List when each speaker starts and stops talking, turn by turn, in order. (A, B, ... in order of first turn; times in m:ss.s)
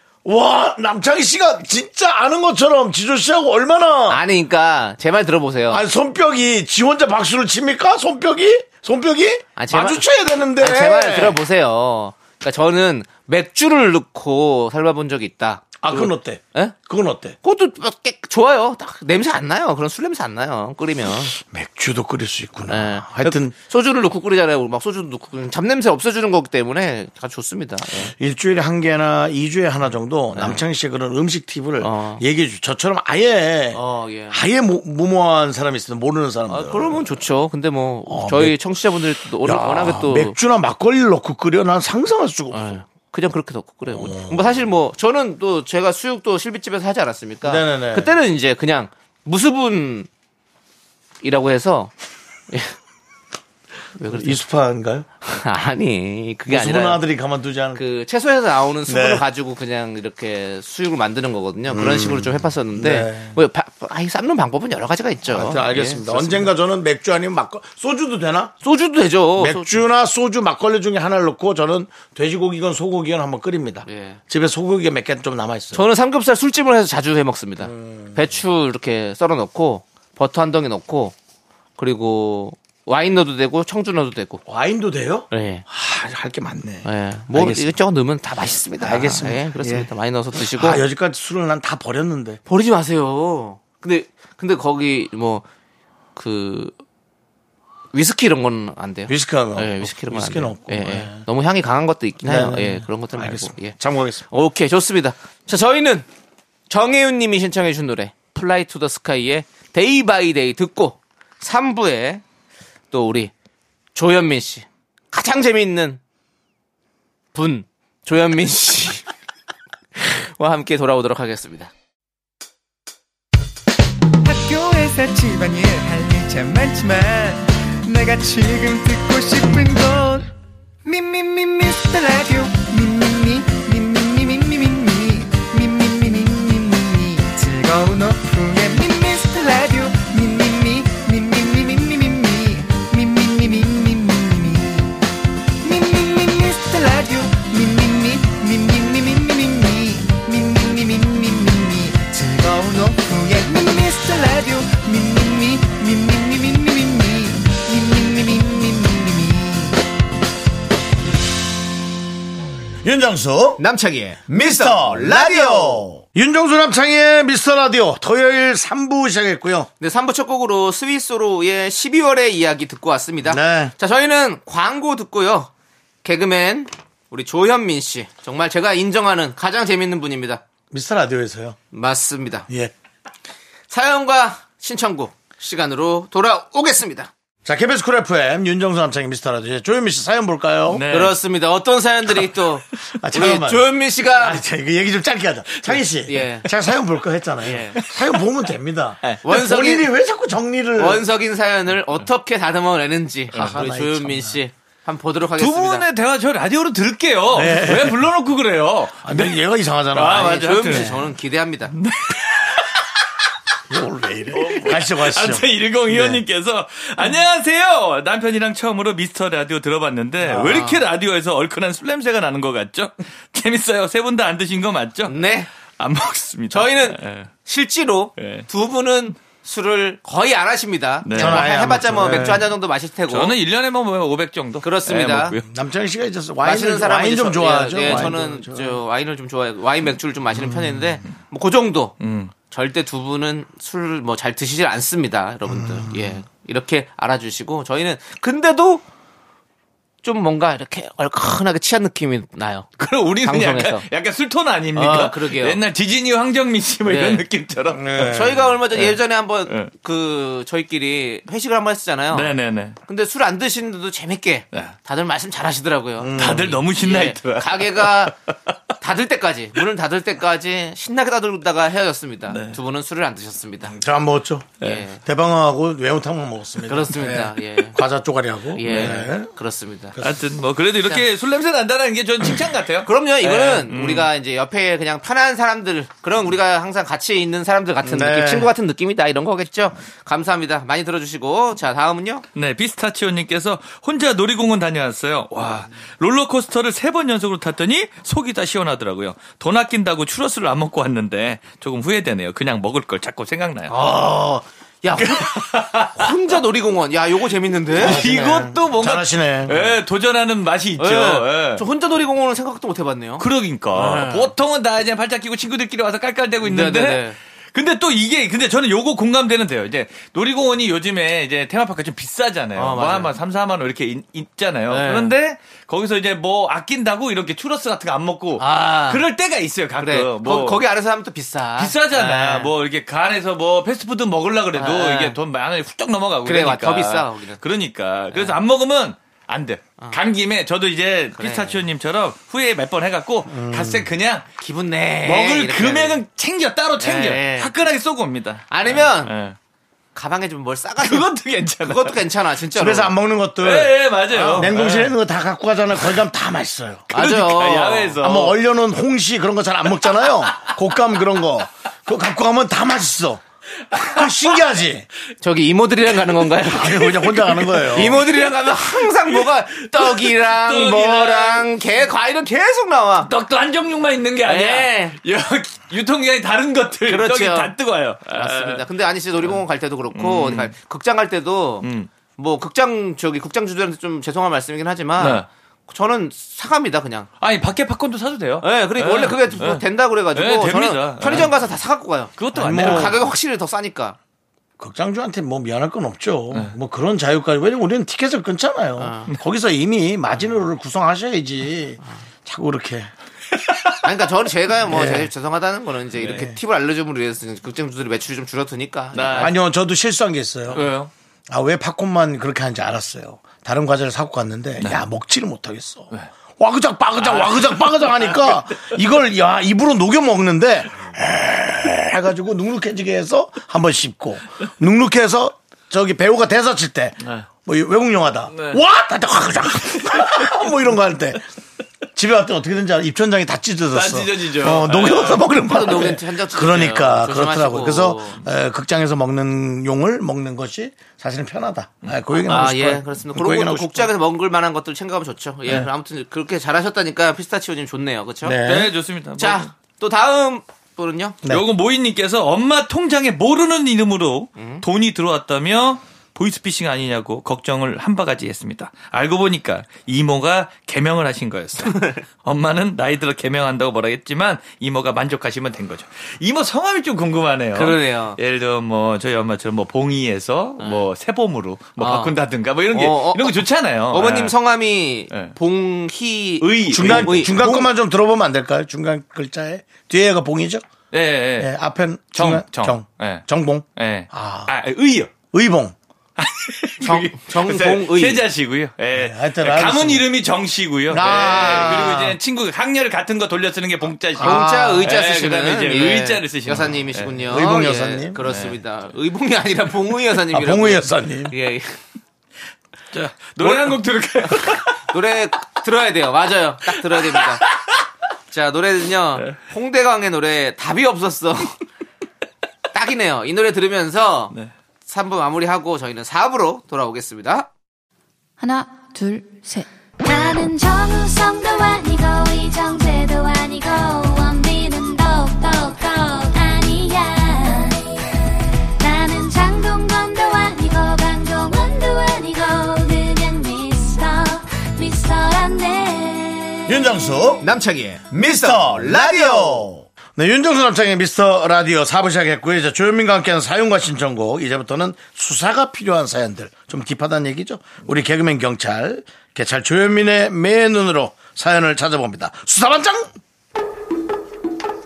0:00.2-0:04.2 A
0:04.1-0:05.8 B
0:05.7-0:11.4 A
0:09.6-0:16.8 B
0:15.8-0:17.4 A
0:17.4-0:21.4 B
0:21.4-0:23.5 A
0:22.7-0:28.1 B
0:28.1-0:37.2 A
0:30.3-0:30.6 B
0:31.8-0:32.2 B
0:33.7-0:34.4 B
0:36.5-0:40.4 B
0:38.1-0:38.6 A
0:39.4-0:42.6 A
0:42.5-0:50.1 B
0:43.9-0:44.5 A
0:47.4-0:48.2 A
0:51.2-0:51.9 B
0:54.0-0:54.4 B
0:54.1-0:55.1 A
0:55.3-0:57.0 B
0:56.5-0:57.8 A
0:57.8-1:06.5 B
0:58.9-0:59.2 A
1:01.7-1:03.4 A
1:05.3-1:08.5 A
1:08.6-1:09.8 B
1:09.4-1:15.8 A
1:13.8-1:14.2 B
1:15.7-1:21.2 B
1:17.6-1:18.2 A
1:21.8-1:24.4 B
1:24.5-1:27.7 A
1:25.3-1:25.6 B
1:26.8-1:30.8 B
1:28.8-1:29.9 A
1:30.4-1:32.4 A
1:32.5-1:35.4 B
1:36.2-1:36.8 B
1:37.9-1:43.8 B
1:39.1-1:41.2 A
1:42.2-1:44.3 A
1:44.3-1:46.1 B
1:46.7-1:52.2 B
1:52.9-1:53.3 B
1:54.0-1:56.0 B
1:57.3-1:59.1 B
2:00.0-2:01.7 B
2:04.2-2:10.3 C
2:10.8-2:25.0 C
2:25.6-2:39.8 C
2:42.8-2:43.6 A
2:43.6-2:45.9 B
2:44.3-2:49.7 A
2:49.8-2:55.5 B
2:53.3-2:53.7 A
2:56.0-3:00.4 B
3:00.7-3:01.6 A
3:01.7-3:02.5 B
3:03.7-3:07.1 B
3:07.4-3:10.8 A
3:10.7-3:11.2 D
3:10.9-3:14.4 B
3:13.0-3:21.0 A
3:15.7-3:16.5 B
3:17.4-3:17.8 B
3:19.2-3:19.9 B
3:20.8-3:25.8 B
3:23.4-3:24.4 A
3:25.4-3:29.4 D
3:27.3-3:28.1 A
3:29.0-3:30.9 A
3:29.9-3:31.0 D
3:30.1-3:31.7 B
3:31.7-3:32.9 D
3:33.7-3:36.2 A
3:34.4-3:45.2 D
3:40.3-3:40.8 B
3:45.1-3:45.5 B
3:45.8-3:47.3 D
3:46.5-3:53.3 B
3:48.2-3:48.5 D
3:51.0-3:52.3 D
3:51.2-3:52.5 A
3:53.1-3:55.5 D
3:54.6-3:55.4 B
3:55.5-3:58.8 A
3:56.4-4:02.0 B
4:02.0-4:02.3 D
4:02.5-4:08.8 B
4:10.0-4:12.7 B
4:12.8-4:18.2 D
4:13.2-4:13.9 B
4:14.7-4:15.6 B
4:16.8-4:17.2 B
4:17.7-4:18.4 A
4:18.0-4:22.3 B
4:18.7-4:19.7 D
4:22.1-4:22.8 D
4:22.9-4:28.1 B
4:26.0-4:26.6 A
4:26.2-4:28.3 D
4:28.8-4:33.8 B
4:32.3-4:32.6 D
4:33.7-4:39.3 A
4:34.6-4:34.9 D
4:34.6-4:35.0 B
4:36.7-4:37.8 B
4:38.5-4:40.0 B
4:38.7-4:39.0 D
4:40.0-4:44.1 D
4:42.8-4:52.2 B
4:47.8-4:48.5 A
4:52.4-5:03.8 D
5:03.7-5:08.4 B
5:05.0-5:06.1 D
5:07.8-5:11.6 D
5:07.8-5:09.6 A
5:10.8-5:14.3 B
5:13.2-5:30.6 D
5:16.4-5:17.2 B
5:22.6-5:23.1 B
5:24.7-5:25.1 B
5:28.4-5:29.0 B
5:29.8-5:32.5 B
5:31.6-5:44.2 D
5:34.5-5:35.2 B
5:36.2-5:37.4 B
5:38.1-5:38.4 B
5:41.2-5:41.6 B
5:43.3-5:43.9 A
5:44.4-5:46.0 B
5:45.0-5:49.4 D
5:46.8-5:47.5 B
5:48.5-5:49.1 B
5:50.0-5:53.0 B
5:50.8-5:52.0 D
5:52.6-5:56.9 A
5:53.4-5:55.0 D
5:56.9-5:58.0 B
5:56.9-5:58.4 D
5:58.0-6:03.2 A
6:03.7-6:04.4 D
6:03.8-6:04.9 A
6:05.2-6:07.2 B
6:06.6-6:08.0 A
6:07.0-6:11.5 D
6:07.7-6:13.1 B
6:13.0-6:18.6 D
6:14.2-6:15.0 B
6:16.9-6:17.6 B
6:18.1-6:27.1 B
6:19.9-6:20.5 D
6:21.6-6:21.9 D
6:25.0-6:25.3 D
6:27.2-6:31.4 D
6:28.4-6:34.0 B
6:32.2-6:33.0 D
6:32.3-6:33.0 A
6:34.6-6:42.9 A
6:38.8-6:39.1 B
6:43.5-6:43.8 D
6:43.8-6:49.3 B
6:44.7-6:45.1 A
6:48.9-6:49.3 D
6:49.2-6:50.6 A
6:50.5-6:50.9 D
6:50.6-6:50.8 B
6:51.3-7:11.2 A
6:54.6-6:54.8 D
6:57.0-6:58.7 D
7:08.3-7:08.6 D
7:12.0-7:23.9 A
7:13.7-7:15.3 D
7:15.3-7:18.2 B
7:22.2-7:28.4 B
7:28.2-7:28.7 A
7:28.4-7:29.5 D
7:29.2-7:31.2 B
7:31.2-7:54.4 D
7:34.4-7:34.6 B
7:41.6-7:42.0 B
7:47.5-7:48.2 B
7:50.6-7:50.9 B
7:51.8-7:52.2 B
7:52.7-7:57.7 B
7:56.4-7:57.4 D
7:56.7-8:00.6 A
8:00.9-8:01.5 D
8:01.4-8:04.5 A
8:02.1-8:03.2 D
8:03.8-8:05.1 D
8:05.3-8:05.8 A
8:06.2-8:17.3 D
8:06.8-8:08.2 B
8:08.9-8:10.1 A
8:10.9-8:12.2 A
8:10.9-8:12.1 B
8:14.2-8:21.8 B
8:14.2-8:14.8 A
8:17.3-8:18.2 A
8:18.2-8:18.6 D
8:20.3-8:21.3 A
8:22.9-8:24.8 D
8:24.3-8:27.4 B
8:26.9-8:27.8 D
8:28.3-8:31.6 B
8:32.7-8:34.3 B
8:34.9-8:37.5 B
8:38.4-8:57.0 E
8:56.7-8:57.4 A
8:57.4-8:59.7 B
8:58.4-9:13.1 A